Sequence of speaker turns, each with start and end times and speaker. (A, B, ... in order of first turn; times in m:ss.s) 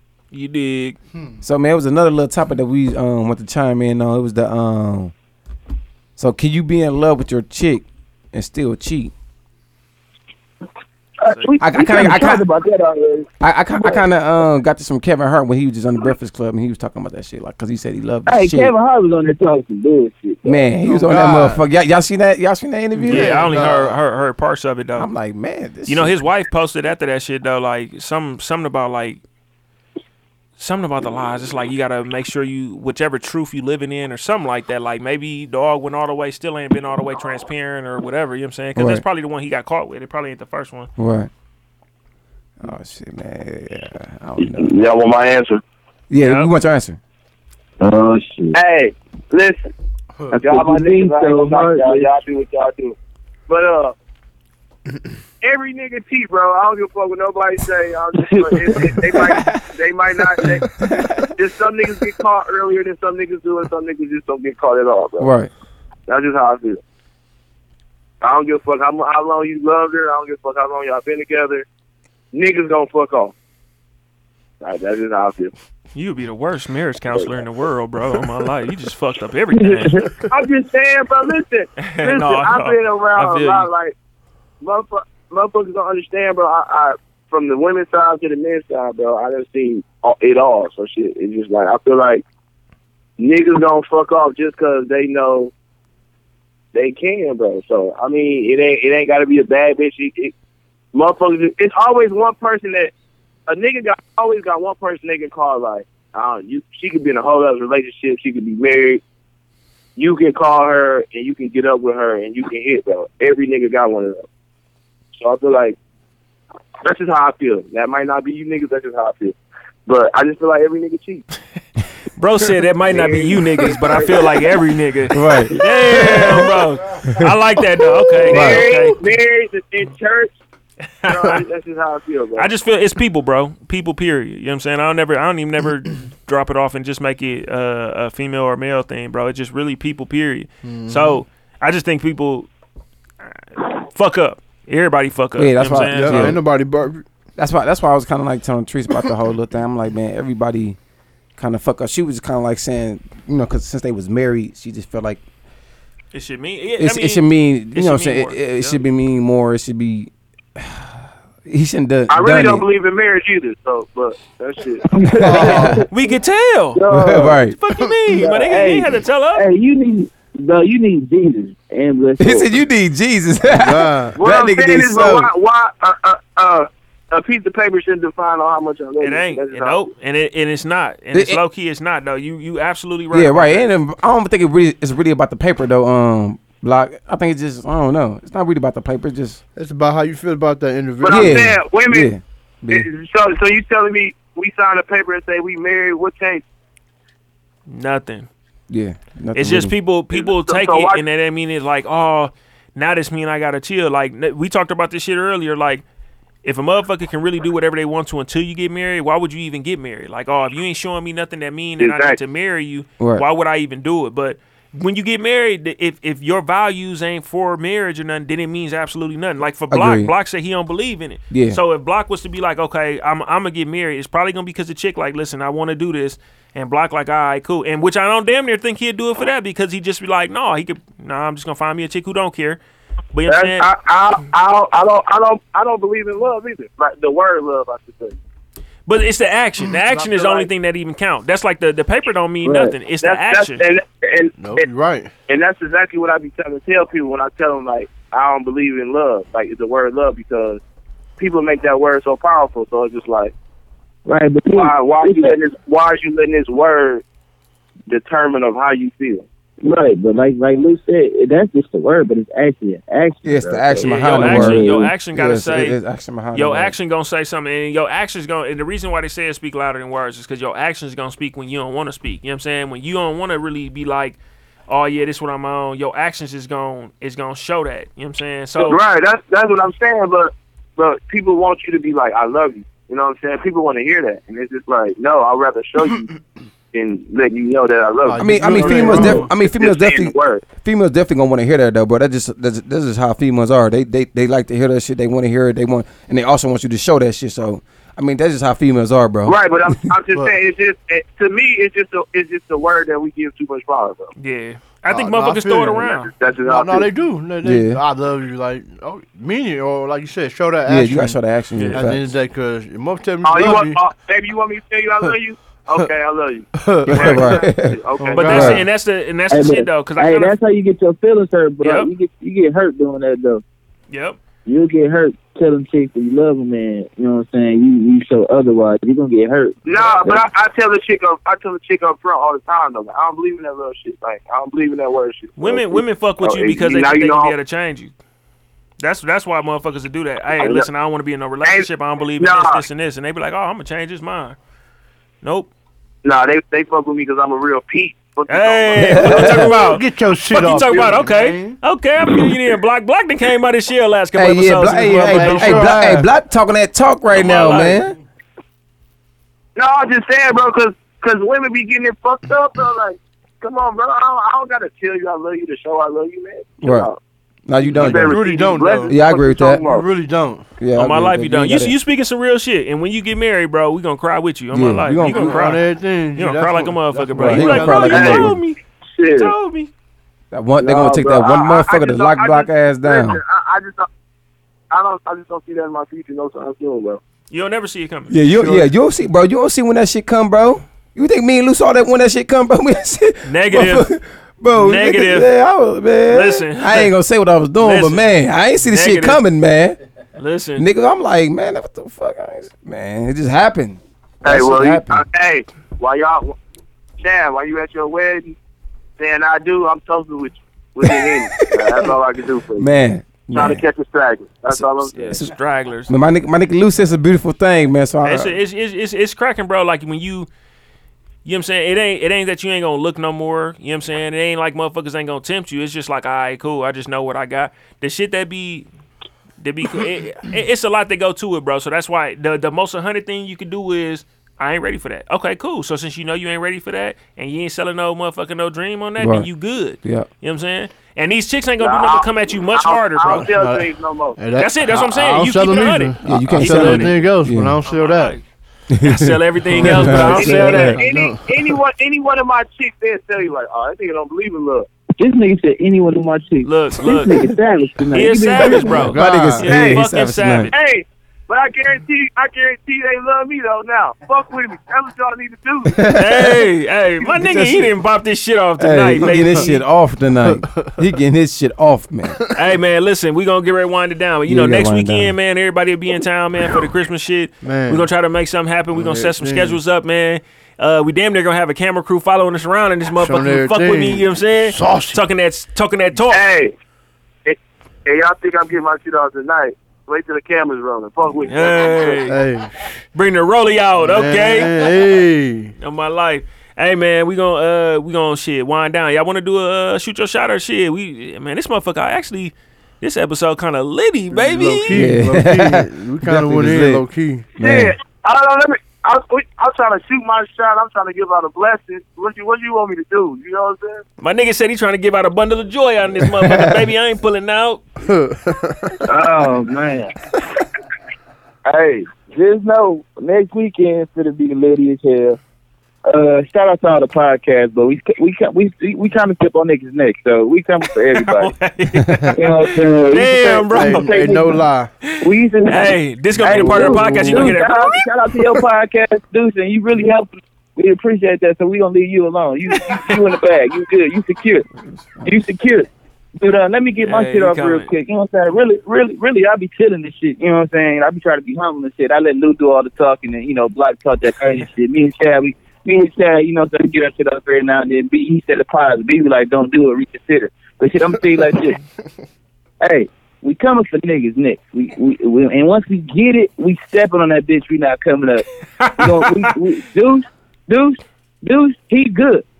0:00.3-0:01.0 A
0:01.4-0:05.1 B
0:06.2-0:09.1 B
0:11.2-0:13.2 C
0:11.6-0:12.4 B
0:11.8-0:12.3 D
0:13.4-0:18.7 B
0:18.3-0:20.6 C
0:20.4-0:23.5 B
0:20.8-0:21.6 E
0:23.0-0:25.1 A
0:23.1-0:24.0 E
0:25.0-0:26.1 B
0:25.9-0:29.2 A
0:30.6-0:40.9 A
0:38.8-0:39.0 B
0:41.0-0:41.3 B
0:42.6-0:44.7 B
0:44.4-0:45.6 D
0:46.1-0:47.0 B
0:46.2-0:46.5 A
0:47.8-0:48.6 C
0:48.5-0:49.7 D
0:50.3-0:52.9 D
0:50.5-0:52.1 C
0:53.5-0:53.9 D
0:55.4-1:00.7 D
0:58.2-0:58.9 C
0:59.2-0:59.6 B
1:00.4-1:01.3 B
1:01.4-1:05.3 D
1:05.2-1:05.5 B
1:06.1-1:06.8 D
1:08.2-1:11.6 D
1:12.3-1:13.3 D
1:14.6-1:15.5 D
1:15.9-1:20.0 A
1:19.6-1:20.1 C
1:20.3-1:23.9 D
1:21.8-1:23.7 A
1:24.6-1:32.2 D
1:33.2-1:35.5 D
1:36.7-1:40.3 D
1:40.9-1:42.9 D
1:43.5-1:49.0 D
1:50.0-1:54.2 D
1:55.2-1:55.8 D
1:56.8-1:59.4 D
1:59.9-2:01.2 D
2:02.2-2:09.0 A
2:02.8-2:04.6 D
2:05.1-2:06.3 B
2:05.6-2:05.9 D
2:07.8-2:08.3 E
2:08.2-2:10.3 D
2:08.3-2:08.6 B
2:11.0-2:11.4 A
2:11.0-2:12.5 D
2:12.4-2:22.5 A
2:20.6-2:21.2 E
2:23.6-2:26.4 A
2:25.4-2:26.4 B
2:25.8-2:27.0 E
2:27.4-2:30.8 B
2:31.4-2:35.2 B
2:36.1-2:38.8 A
2:36.8-2:40.8 B
2:41.4-2:42.6 B
2:42.1-2:45.7 D
2:44.9-2:45.8 C
2:45.1-2:45.8 B
2:45.2-2:45.8 E
2:45.9-2:46.8 A
2:46.7-2:47.4 C
2:46.9-2:47.6 B
2:47.6-2:49.4 A
2:48.1-2:52.5 C
2:52.2-2:55.3 B
2:53.5-2:54.2 E
2:54.2-2:59.9 D
2:59.0-3:03.7 A
3:01.1-3:01.4 B
3:03.1-3:09.4 B
3:09.6-3:11.6 E
3:11.0-3:12.1 D
3:11.1-3:12.8 B
3:12.7-3:16.4 D
3:17.7-3:18.3 A
3:18.7-3:19.7 B
3:19.3-3:25.8 A
3:20.1-3:21.0 D
3:26.4-3:52.6 A
3:31.8-3:32.2 D
3:33.0-3:33.2 B
3:39.7-3:40.1 B
3:41.3-3:41.6 B
3:53.1-3:53.7 A
3:53.3-3:58.2 D
3:58.8-4:03.6 A
3:59.9-4:00.5 D
4:02.4-4:02.7 C
4:03.0-4:04.6 D
4:04.4-4:05.1 E
4:05.3-4:10.6 D
4:11.2-4:13.3 D
4:14.0-4:15.4 C
4:14.5-4:17.0 D
4:17.9-4:19.2 D
4:19.6-4:24.9 C
4:23.2-4:26.7 B
4:23.8-4:25.8 A
4:26.3-4:38.8 A
4:38.6-4:46.1 D
4:46.7-4:50.4 D
4:48.0-4:49.3 E
4:48.2-4:59.4 B
4:59.2-5:04.1 D
5:04.2-5:06.1 A
5:04.8-5:05.8 E
5:05.8-5:06.9 D
5:06.4-5:13.8 E
5:07.4-5:07.8 B
5:10.6-5:12.0 B
5:11.5-5:11.8 A
5:13.2-5:18.6 D
5:16.5-5:17.4 E
5:16.9-5:18.6 B
5:17.0-5:17.3 A
5:18.0-5:18.6 E
5:18.1-5:20.3 A
5:19.3-5:23.4 C
5:21.6-5:21.9 A
5:23.9-5:24.2 A
5:24.4-5:30.2 C
5:29.6-5:37.3 D
5:35.4-5:37.9 A
5:38.8-5:44.4 A
5:40.4-5:40.7 D
5:42.2-5:42.6 D
5:45.2-5:45.5 A
5:46.0-5:49.8 D
5:48.3-5:55.9 A
5:48.8-5:49.4 B
5:49.0-5:51.6 E
5:50.6-5:51.0 D
5:54.1-5:58.0 B
5:54.7-5:56.1 E
5:57.1-5:57.8 A
5:59.6-6:07.0 D
6:06.6-6:06.9 B
6:07.5-6:08.2 B
6:07.6-6:09.9 D
6:07.7-6:09.0 E
6:08.9-6:09.6 B
6:09.6-6:10.5 E
6:10.6-6:11.7 B
6:10.7-6:15.6 A
6:14.5-6:15.5 B
6:15.1-6:18.0 E
6:16.2-6:18.6 A
6:17.2-6:18.4 B
6:17.8-6:18.4 D
6:19.0-6:19.3 D
6:19.1-6:19.7 A
6:20.3-6:23.2 B
6:20.6-6:23.9 D
6:24.7-6:27.0 D
6:27.3-6:28.1 A
6:28.1-6:39.8 B
6:33.2-6:33.9 A
6:34.5-6:35.3 A
6:36.1-6:36.9 A
6:37.6-6:38.1 A
6:38.6-6:39.2 A
6:40.2-6:40.6 A
6:40.6-6:45.0 B
6:44.2-6:46.4 D
6:47.0-6:48.4 D
6:49.0-6:52.8 D
6:50.8-6:51.9 B
6:52.6-6:53.6 B
6:53.3-6:55.2 D
6:54.5-6:55.4 B
6:54.9-6:55.9 A
6:55.9-6:58.4 B
6:58.0-7:00.3 A
7:01.2-7:08.7 A
7:09.4-7:23.2 A
7:19.0-7:19.3 B
7:19.8-7:20.1 B
7:21.6-7:24.2 D
7:23.3-7:28.3 E
7:24.4-7:27.1 A
7:26.0-7:27.6 B
7:27.6-7:28.2 A
7:28.7-7:30.8 B
7:28.8-7:30.8 A
7:29.6-7:31.6 E
7:29.8-7:34.7 D
7:35.0-7:38.8 C
7:36.4-7:37.3 A
7:37.9-7:40.5 A
7:38.4-7:40.5 B
7:38.7-7:39.7 E
7:40.5-7:45.8 D
7:45.7-7:46.4 B
7:45.9-7:49.6 A
7:47.2-7:47.7 B
7:48.6-7:52.2 B
7:49.0-7:49.5 E
7:50.2-7:50.8 E
7:52.4-8:06.2 A
7:54.3-7:55.2 B
7:57.4-7:57.9 E
7:58.7-7:59.6 E
8:03.0-8:05.0 E
8:06.1-8:06.5 D
8:07.2-8:12.2 D
8:11.3-8:12.2 A
8:12.0-8:12.8 E
8:12.9-8:14.5 A
8:13.8-8:15.5 E
8:15.6-8:24.9 A
8:24.1-8:27.3 E
8:24.7-8:27.7 B
8:27.4-8:33.8 D
8:34.0-8:37.9 A
8:36.2-8:36.6 B
8:37.8-8:38.8 E
8:38.8-8:39.9 C
8:41.4-8:45.2 C
8:45.8-8:51.3 C
8:50.9-8:53.9 A
8:52.1-8:54.4 C
8:53.5-8:54.7 E
8:55.0-9:04.4 C
8:55.4-8:57.8 A
8:56.2-8:57.4 E
9:04.6-9:05.0 B
9:05.0-9:21.6 C
9:06.8-9:07.7 A
9:22.6-9:28.2 C
9:28.6-9:29.3 A
9:28.8-9:32.2 C